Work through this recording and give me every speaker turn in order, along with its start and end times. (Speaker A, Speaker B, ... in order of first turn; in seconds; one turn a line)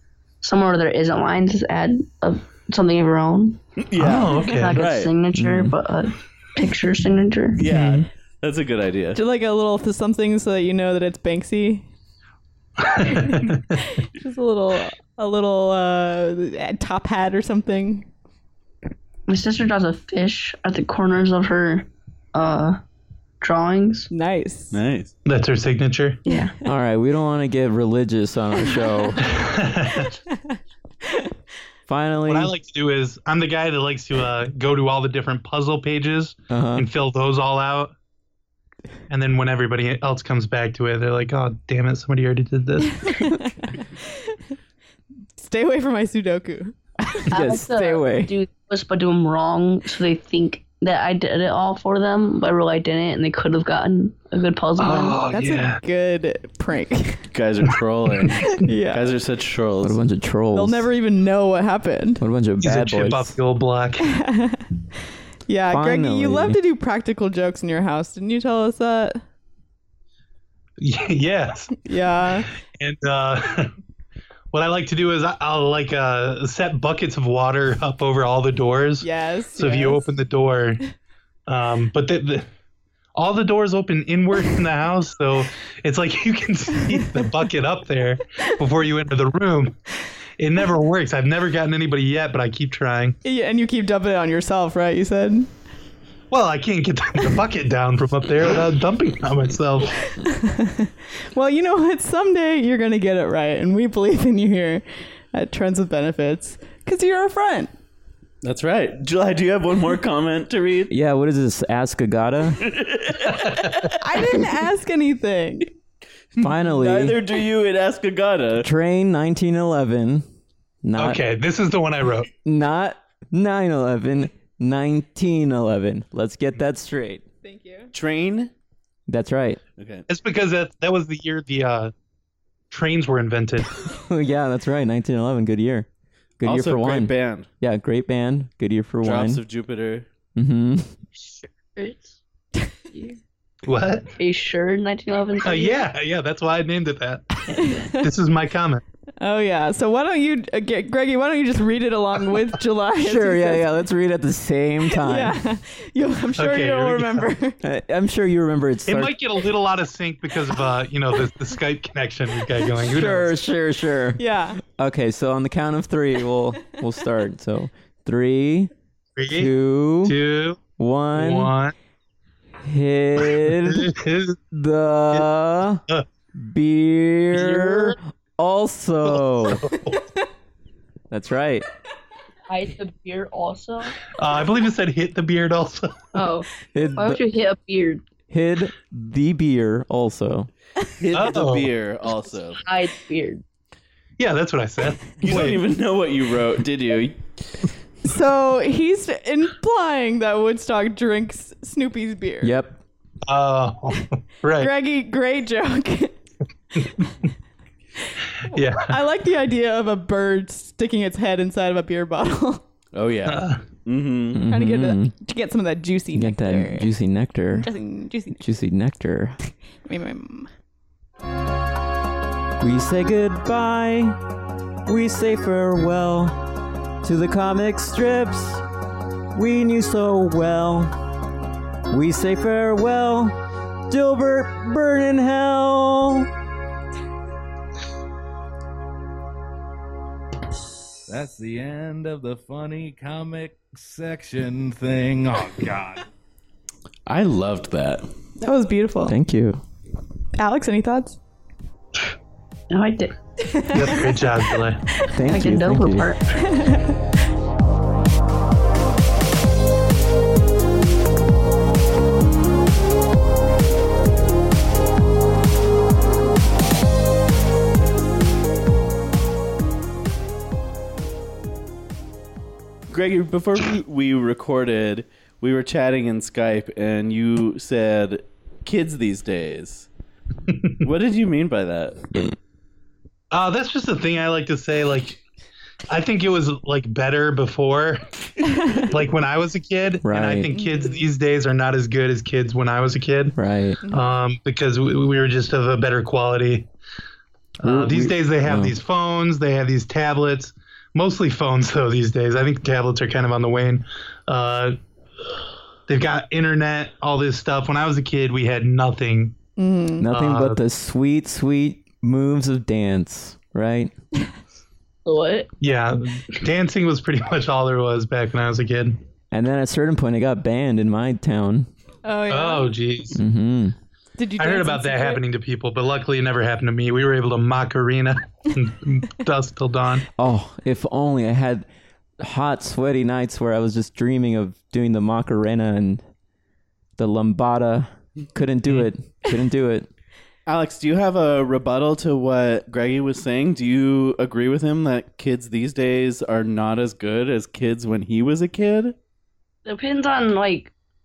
Speaker A: 0.4-3.6
Speaker B: 3.9-5.1
Speaker C: 4.0-4.8
Speaker A: 4.4-7.6
Speaker D: 5.3-5.8
Speaker B: 7.5-9.2
Speaker C: 7.7-8.0
Speaker E: 9.2-11.9
Speaker C: 12.9-13.7
Speaker E: 13.0-18.1
Speaker A: 19.3-22.8
Speaker A: 23.4-24.1
Speaker E: 24.1-24.8
Speaker B: 24.7-25.1
Speaker C: 25.2-26.2
Speaker A: 26.2-26.5
Speaker D: 26.6-29.2
Speaker C: 29.2-30.1
Speaker E: 30.0-30.6
Speaker D: 31.9-32.5
Speaker C: 32.3-37.9
Speaker D: 36.5-36.9
Speaker C: 39.1-43.2
Speaker E: 43.0-44.4
Speaker E: 45.4-47.3
Speaker D: 47.1-48.3
Speaker A: 47.3-55.2
Speaker C: 54.8-55.8
Speaker E: 54.9-57.3
Speaker B: 57.3-60.0
Speaker E: 58.5-59.1
Speaker D: 59.8-60.9
Speaker E: 60.5-62.2
Speaker D: 62.2-63.4
Speaker C: 62.6-64.1
Speaker E: 64.1-64.7
Speaker E: 65.5-69.2
Speaker D: 65.7-66.6
Speaker C: 70.8-71.8
Speaker E: 71.8-72.5
Speaker C: 72.8-73.7
Speaker C: 74.5-80.8
Speaker E: 79.0-80.1
Speaker C: 81.5-82.5
Speaker C: 83.2-89.8
Speaker C: 90.4-93.2
Speaker E: 93.2-95.5
Speaker C: 96.3-100.0
Speaker E: 100.2-107.7
Speaker B: 108.4-110.9
Speaker D: 110.9-112.7
Speaker B: 112.6-114.0
Speaker C: 113.2-113.9
Speaker E: 114.0-115.7
Speaker B: 116.3-118.7
Speaker D: 116.4-117.2
Speaker D: 118.6-120.2
Speaker D: 120.8-121.2
Speaker C: 121.0-122.3
Speaker D: 122.5-127.2
Speaker E: 127.4-127.9
Speaker B: 127.9-128.5
Speaker D: 129.1-129.6
Speaker B: 129.8-130.1
Speaker C: 130.1-131.9
Speaker C: 132.7-133.8
Speaker D: 133.9-135.9
Speaker D: 136.4-139.4
Speaker B: 136.4-137.5
Speaker B: 139.0-140.1
Speaker D: 140.4-140.9
Speaker A: 141.2-142.2
Speaker A: 142.9-143.2
Speaker C: 143.6-144.1
Speaker A: 144.2-145.9
Speaker C: 145.4-148.8
Speaker E: 147.5-148.0
Speaker E: 149.2-153.7
Speaker D: 153.0-155.4
Speaker E: 154.9-157.6
Speaker C: 156.4-157.3
Speaker D: 157.6-159.1
Speaker C: 158.9-163.4
Speaker D: 162.8-164.2
Speaker E: 164.2-164.6
Speaker D: 164.8-168.7
Speaker C: 169.2-169.5
Speaker D: 169.3-170.2
Speaker C: 170.1-171.7
Speaker D: 170.8-171.5
Speaker D: 172.6-173.9
Speaker C: 173.2-174.4
Speaker D: 174.5-175.8
Speaker D: 176.4-179.7
Speaker C: 177.3-177.9
Speaker C: 179.1-180.0
Speaker D: 181.1-181.7
Speaker A: 182.5-184.1
Speaker C: 184.2-186.1
Speaker A: 186.1-188.0
Speaker D: 186.7-187.2
Speaker D: 188.3-190.5
Speaker B: 191.0-192.6
Speaker C: 191.1-191.7
Speaker A: 192.6-193.4
Speaker C: 194.2-195.6
Speaker B: 195.2-197.2
Speaker E: 198.0-202.5
Speaker D: 202.4-202.8
Speaker C: 203.3-204.7
Speaker E: 204.6-206.1
Speaker C: 208.5-209.0
Speaker E: 208.5-212.6
Speaker B: 212.9-214.4
Speaker C: 213.3-213.6
Speaker D: 214.3-215.1
Speaker E: 214.5-216.9
Speaker D: 216.1-217.7
Speaker E: 217.6-218.4
Speaker D: 218.4-219.4
Speaker E: 219.8-220.5
Speaker D: 222.6-224.2
Speaker D: 224.9-226.5
Speaker D: 227.0-228.6
Speaker D: 229.3-231.0
Speaker D: 231.9-233.4
Speaker D: 233.9-236.3
Speaker F: 241.1-246.1
Speaker B: 247.1-248.1
Speaker E: 248.4-249.2
Speaker D: 249.1-249.6
Speaker E: 250.4-251.2
Speaker A: 252.7-253.1
Speaker E: 253.5-254.1
Speaker C: 253.7-254.8
Speaker D: 255.1-256.1
Speaker A: 255.2-256.4
Speaker E: 256.4-257.0
Speaker B: 272.9-279.9
Speaker C: 280.5-280.8
Speaker B: 280.8-282.1
Speaker C: 283.3-285.2
Speaker C: 285.9-293.4
Speaker D: 290.0-290.6
Speaker D: 293.4-293.8
Speaker E: 293.8-294.1
Speaker C: 293.9-296.7
Speaker D: 297.6-298.8
Speaker C: 297.6-304.8
Speaker C: 305.9-309.4
Speaker E: 309.6-310.1
Speaker D: 310.0-313.9
Speaker C: 310.1-310.6
Speaker A: 315.1-315.5
Speaker C: 315.6-319.0
Speaker D: 319.3-321.7
Speaker E: 322.1-322.8
Speaker C: 322.3-323.2
Speaker D: 323.2-323.8
Speaker E: 324.2-325.2
Speaker C: 324.4-330.1
Speaker D: 330.2-331.7
Speaker D: 332.2-336.0
Speaker D: 337.0-339.9
Speaker B: 340.5-349.0
Speaker A: 349.6-350.7